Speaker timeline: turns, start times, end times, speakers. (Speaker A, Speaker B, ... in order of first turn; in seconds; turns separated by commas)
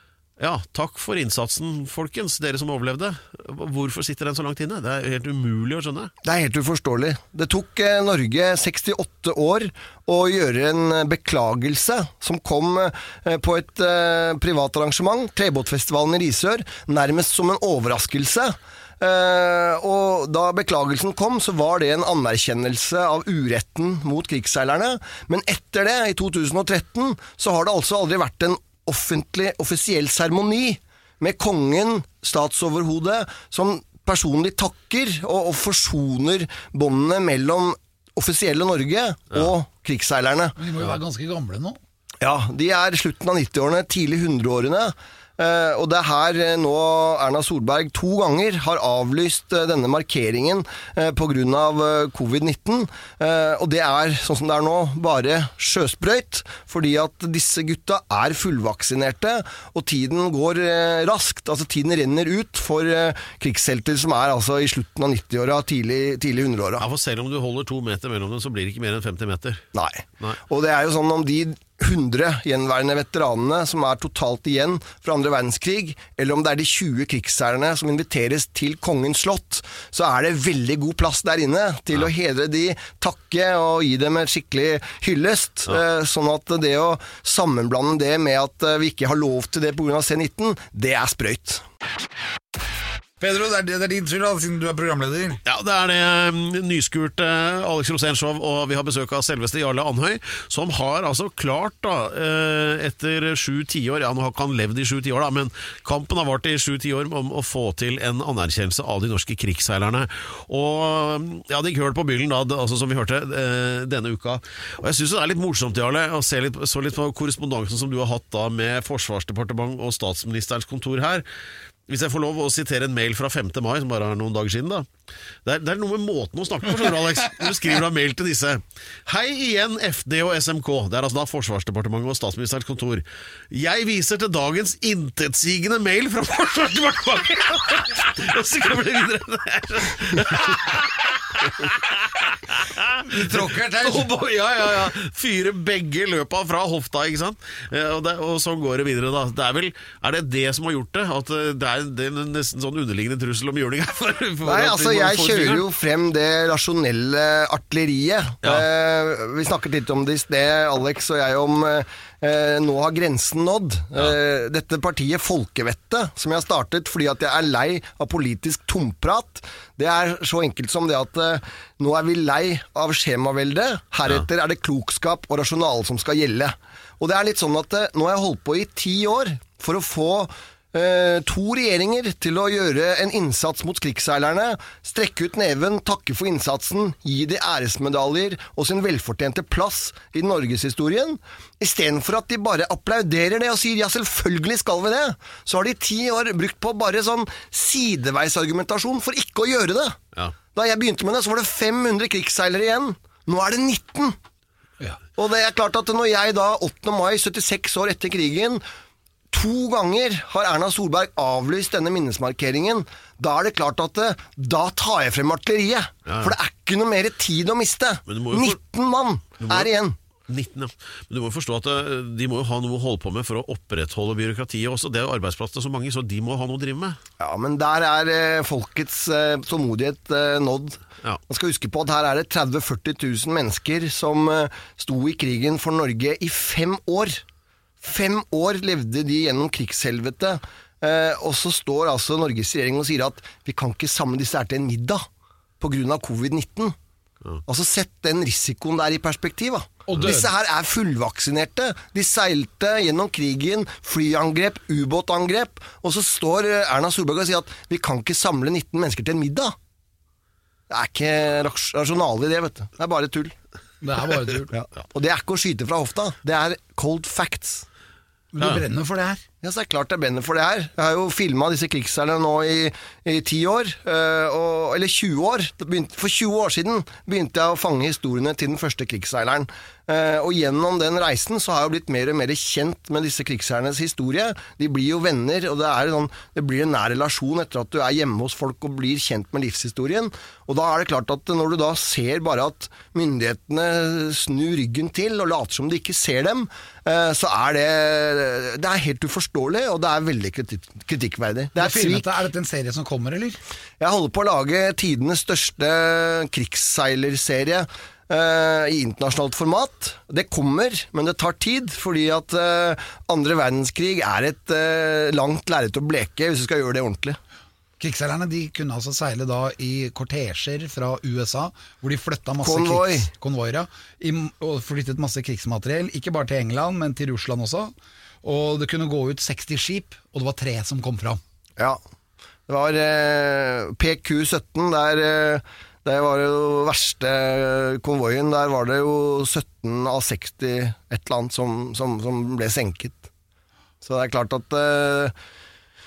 Speaker A: 0.4-6.1, Speaker B: 6.2-40.6, Speaker C: 40.6-41.8, Speaker B: 42.2-66.9, Speaker A: 66.8-69.6, Speaker B: 69.7-91.6, Speaker C: 93.2-95.4, Speaker A: 95.5-121.2, Speaker A: 121.9-124.9, Speaker A: 125.5-155.7, Speaker C: 143.1-144.1, Speaker B: 154.4-200.0, Speaker B: 200.5-204.2, Speaker B: 205.2-208.6, Speaker B: 209.3-220.0, Speaker A: 216.1-216.3, Speaker A: 218.1-218.6, Speaker A: 219.4-219.7, Speaker A: 220.3-227.0, Speaker B: 227.2-237.2, Speaker B: 237.8-245.0, Speaker B: 245.6-246.8, Speaker B: 247.5-259.6, Speaker C: 249.9-250.3, Speaker B: 260.7-263.4, Speaker C: 263.8-264.5, Speaker B: 264.5-267.7, Speaker C: 268.3-269.2, Speaker B: 269.4-302.1, Speaker C: 301.6-303.4, Speaker B: 303.8-317.2, Speaker C: 317.8-327.7, Speaker B: 322.4-323.1, Speaker C: 328.2-331.2, Speaker B: 332.5-343.1, Speaker B: 343.8-345.1